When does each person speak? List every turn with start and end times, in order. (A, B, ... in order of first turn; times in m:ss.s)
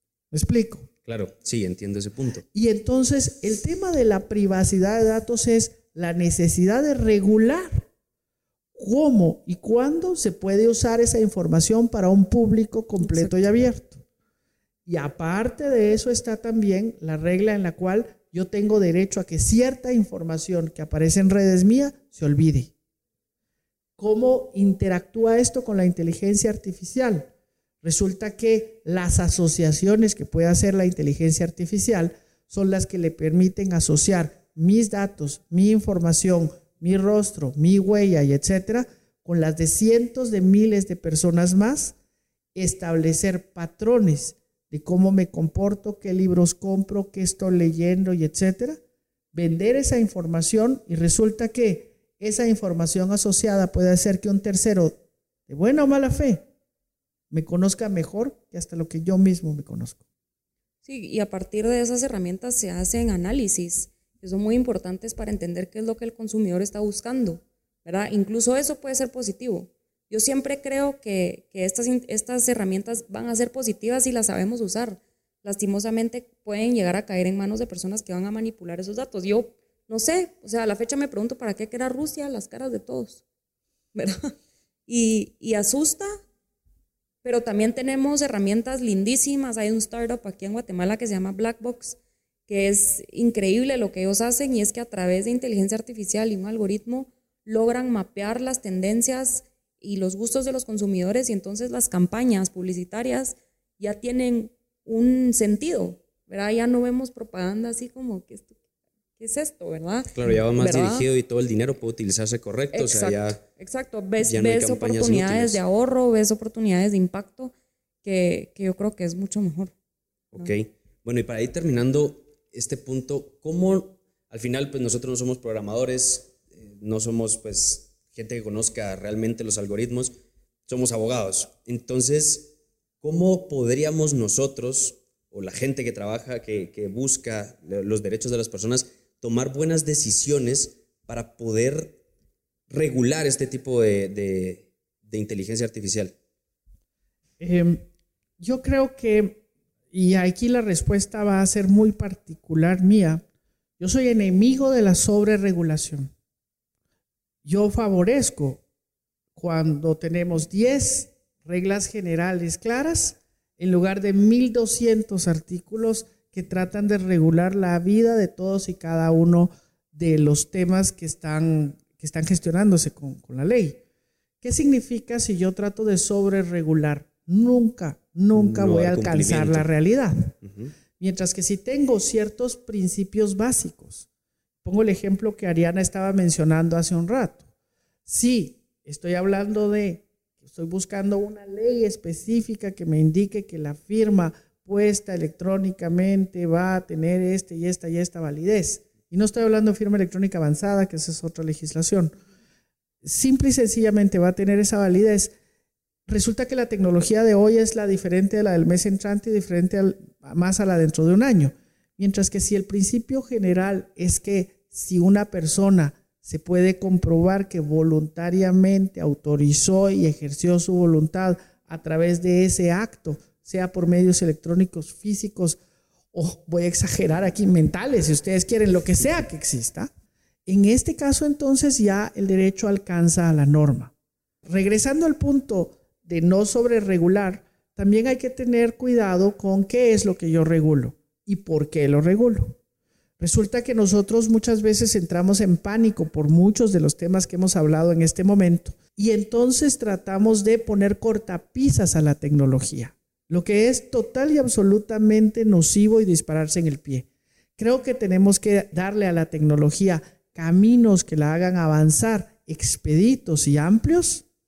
0:00.3-0:00.9 A
0:01.0-0:02.4 B
0:02.5-0:07.8 A
0:08.7-0:14.0 A
0:13.0-0:13.3 C
0:14.8-0:22.7 A
0:24.0-0:27.3 A
0:27.8-0:42.0 A
0:42.5-0:48.8 A
0:49.3-0:56.4 A
0:57.3-1:00.0 A
1:00.8-1:23.2 C
1:23.9-1:24.3 C
1:24.9-1:26.1 C
1:27.2-1:48.5 C
1:49.2-1:51.1 C
1:50.1-1:53.4 B
1:52.7-1:57.5 C
1:54.2-1:55.6 B
1:58.0-1:59.7 C
2:00.3-2:10.1 B
2:10.7-2:22.0 B
2:22.7-2:26.1 B
2:27.4-2:27.9 A
2:28.4-2:33.2 A
2:33.8-2:36.1 A
2:37.4-2:38.6 A
2:39.4-2:53.8 A
2:54.4-3:00.3 A
2:58.3-2:59.7 B
3:00.4-3:00.7 B
3:01.0-3:04.1 A
3:04.6-3:07.5 A
3:08.0-3:22.1 A
3:23.0-3:25.3 A
3:26.1-3:45.6 A
3:46.1-3:49.9 A
3:50.4-3:53.9 A
3:54.4-4:02.6 A
4:03.2-4:24.2 A